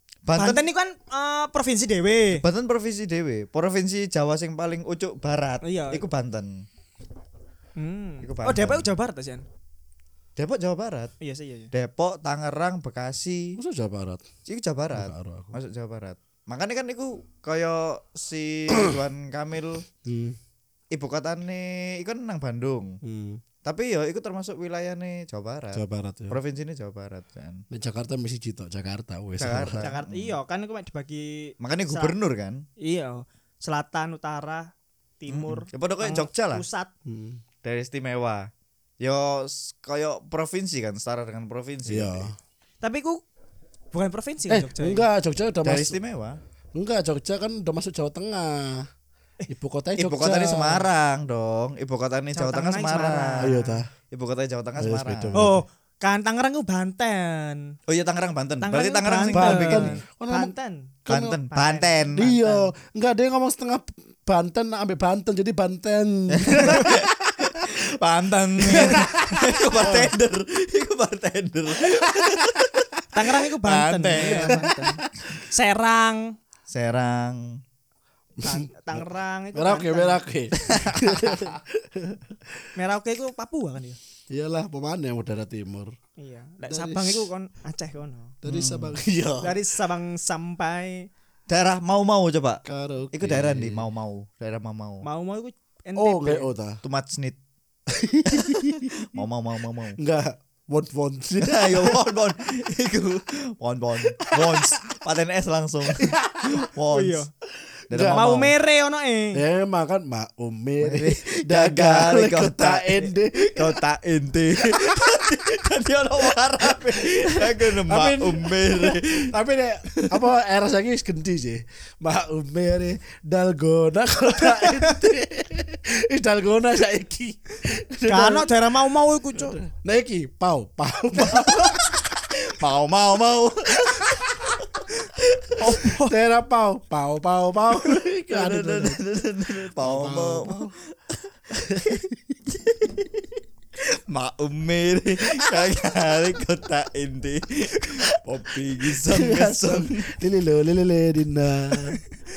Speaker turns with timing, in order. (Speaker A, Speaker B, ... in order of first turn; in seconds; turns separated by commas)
Speaker A: 0.2-0.6, Speaker B: 0.3-2.4, Speaker A: 2.3-6.7, Speaker B: 5.6-6.0, Speaker B: 7.8-9.4, Speaker A: 8.2-8.9, Speaker A: 10.4-11.1, Speaker B: 11.2-11.7, Speaker A: 11.7-13.6, Speaker C: 13.6-14.2, Speaker A: 14.4-19.8, Speaker C: 14.9-15.6, Speaker C: 20.0-20.4, Speaker A: 20.9-23.0, Speaker C: 23.0-23.4, Speaker A: 23.6-27.6, Speaker C: 25.7-26.4, Speaker C: 27.7-29.9, Speaker A: 29.4-30.4, Speaker B: 29.8-32.1, Speaker A: 31.6-32.6, Speaker B: 32.8-36.9, Speaker A: 35.3-36.6, Speaker C: 37.0-37.4, Speaker A: 37.6-42.3, Speaker C: 41.9-42.3, Speaker B: 42.8-43.2, Speaker B: 43.9-45.0, Speaker C: 44.5-46.0, Speaker A: 45.6-46.4, Speaker C: 46.7-48.9, Speaker C: 49.5-50.9, Speaker A: 50.0-53.6, Speaker B: 52.3-53.8, Speaker C: 53.4-53.9, Speaker A: 54.1-55.5, Speaker C: 54.8-55.6, Speaker B: 55.3-57.8, Speaker A: 57.9-60.0, Speaker B: 58.6-62.7, Speaker C: 59.3-60.5, Speaker A: 61.1-62.2, Speaker C: 62.1-67.5, Speaker A: 66.3-72.8, Speaker C: 68.6-69.5, Speaker B: 69.8-70.1, Speaker C: 71.8-72.7, Speaker B: 73.1-76.3, Speaker C: 73.6-75.0, Speaker A: 74.1-74.7, Speaker A: 76.7-77.6, Speaker C: 78.4-82.4, Speaker B: 78.4-80.2, Speaker A: 80.7-81.5, Speaker B: 82.7-84.0, Speaker C: 84.3-85.9, Speaker B: 86.2-88.4, Speaker C: 86.7-87.3, Speaker C: 88.4-89.6, Speaker A: 88.5-89.0, Speaker B: 89.4-91.1, Speaker A: 91.5-95.0, Speaker C: 92.7-93.8, Speaker B: 95.0-96.5, Speaker C: 96.0-96.8, Speaker A: 96.8-97.4, Speaker C: 97.9-99.1, Speaker A: 98.3-100.0, Speaker C: 100.0-102.0, Speaker A: 101.4-107.2, Speaker C: 104.2-104.7, Speaker C: 106.0-106.6, Speaker B: 106.9-107.3, Speaker C: 107.9-108.2, Speaker A: 107.9-108.5, Speaker B: 108.1-109.4, Speaker C: 109.3-113.8, Speaker A: 110.8-119.3, Speaker C: 114.6-115.0, Speaker C: 116.9-128.5, Speaker A: 120.0-120.2, Speaker B: 124.5-124.9, Speaker B: 128.1-129.6, Speaker C: 129.3-131.9, Speaker A: 131.2-135.8, Speaker C: 133.8-134.6, Speaker B: 135.6-136.1, Speaker C: 135.8-139.0, Speaker A: 137.8-141.2, Speaker C: 139.8-140.7, Speaker C: 141.5-142.1, Speaker A: 141.8-150.1, Speaker C: 149.0-152.0